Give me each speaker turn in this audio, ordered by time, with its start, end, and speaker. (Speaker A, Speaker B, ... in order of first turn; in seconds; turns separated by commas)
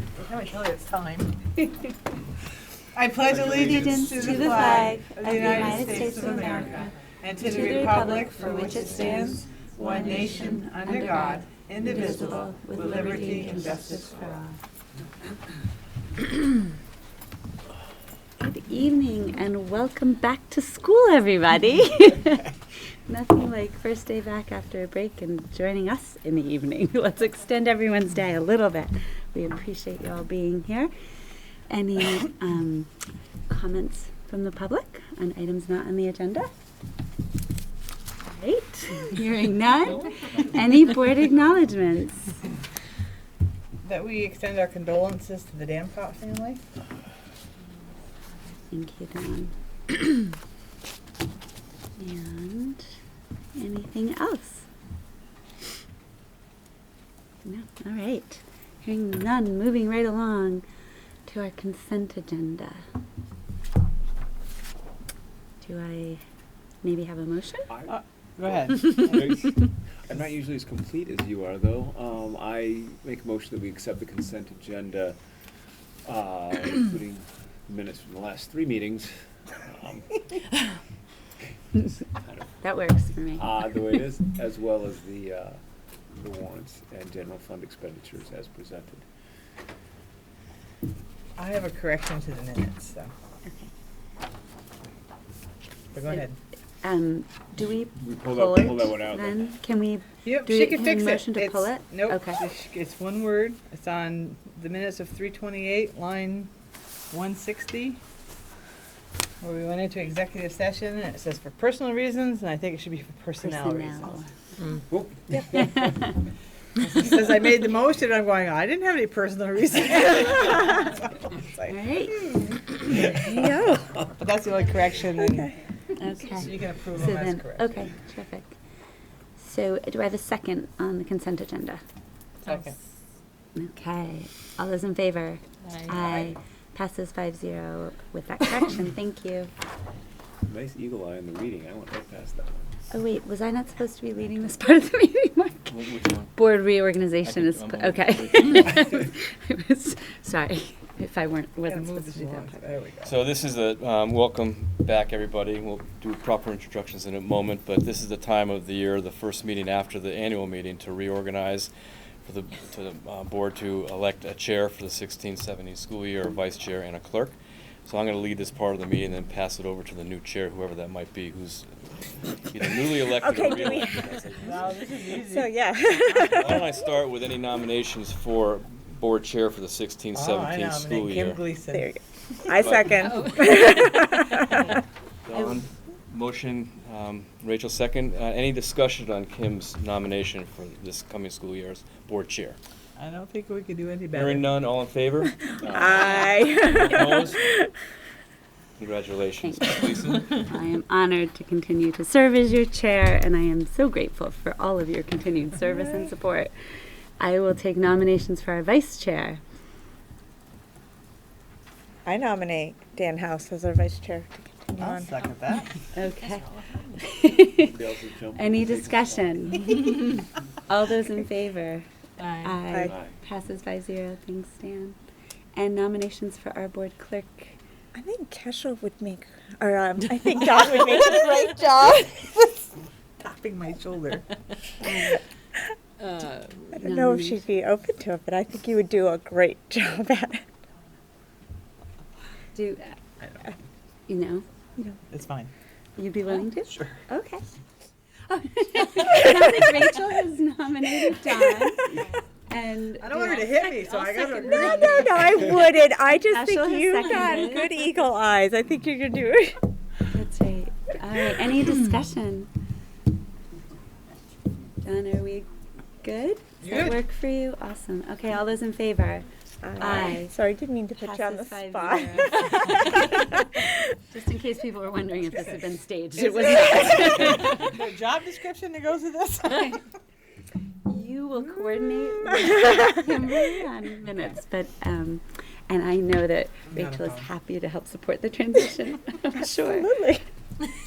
Speaker A: 0.2-1.3, Speaker A: 2.9-14.1, Speaker B: 3.3-4.9, Speaker C: 3.5-14.6, Speaker B: 12.1-12.5, Speaker C: 18.4-22.6, Speaker C: 23.1-30.9, Speaker C: 31.7-32.9, Speaker C: 33.5-36.5, Speaker C: 38.2-42.2, Speaker A: 43.8-46.6, Speaker C: 48.7-50.1, Speaker C: 52.0-52.9, Speaker C: 53.5-54.7, Speaker C: 57.4-60.6, Speaker C: 61.3-62.8, Speaker C: 65.6-66.2, Speaker C: 66.8-67.7, Speaker B: 67.7-68.0, Speaker A: 68.4-68.8, Speaker B: 68.5-75.2, Speaker B: 76.0-80.2, Speaker B: 82.0-82.5, Speaker C: 82.6-83.5, Speaker B: 83.3-85.6, Speaker B: 86.2-89.0, Speaker A: 91.4-93.1, Speaker A: 95.9-96.4, Speaker C: 96.8-102.4, Speaker B: 97.9-99.4, Speaker A: 100.2-106.5, Speaker A: 107.1-108.0, Speaker A: 109.4-114.1, Speaker C: 113.4-114.3, Speaker B: 114.9-115.8, Speaker C: 115.7-116.0, Speaker A: 116.9-121.7, Speaker C: 121.7-122.3, Speaker C: 123.1-123.6, Speaker D: 123.1-124.0, Speaker A: 124.2-125.5, Speaker C: 126.0-128.5, Speaker A: 126.5-127.7, Speaker C: 129.4-131.8, Speaker C: 133.5-139.5, Speaker B: 140.4-142.9, Speaker C: 142.9-145.7, Speaker E: 145.7-146.3, Speaker C: 146.3-152.6, Speaker E: 147.2-148.7, Speaker A: 151.7-153.0, Speaker E: 153.0-161.7, Speaker E: 162.2-171.7, Speaker E: 172.2-174.8, Speaker D: 173.0-174.5, Speaker A: 174.9-175.4, Speaker D: 175.2-176.8, Speaker E: 176.1-181.4, Speaker A: 180.1-181.7, Speaker D: 181.7-184.8, Speaker E: 182.5-183.2, Speaker E: 185.3-192.6, Speaker A: 193.0-193.8, Speaker E: 194.1-197.4, Speaker D: 195.6-197.7, Speaker B: 195.6-196.3, Speaker E: 198.8-200.4, Speaker C: 199.4-206.5, Speaker C: 207.2-209.4, Speaker D: 212.0-215.3, Speaker A: 214.8-215.7, Speaker C: 215.9-217.8, Speaker B: 217.6-219.6, Speaker C: 218.3-220.1, Speaker C: 220.7-225.0, Speaker D: 222.7-222.9, Speaker B: 222.8-223.1, Speaker C: 225.5-227.6, Speaker D: 227.9-232.2, Speaker A: 233.2-234.2, Speaker C: 234.8-235.2, Speaker D: 236.7-240.5, Speaker C: 236.8-237.4, Speaker C: 242.5-243.0, Speaker C: 244.1-244.4, Speaker A: 245.1-245.5, Speaker C: 246.0-247.4, Speaker C: 248.2-257.8, Speaker A: 253.0-255.0, Speaker D: 254.4-259.6, Speaker C: 260.1-262.5, Speaker C: 264.8-265.5, Speaker C: 266.0-269.2, Speaker D: 269.6-272.7, Speaker C: 269.8-270.3, Speaker C: 270.9-277.7, Speaker A: 276.3-279.7, Speaker C: 280.9-289.9, Speaker A: 286.7-287.3, Speaker D: 289.4-290.2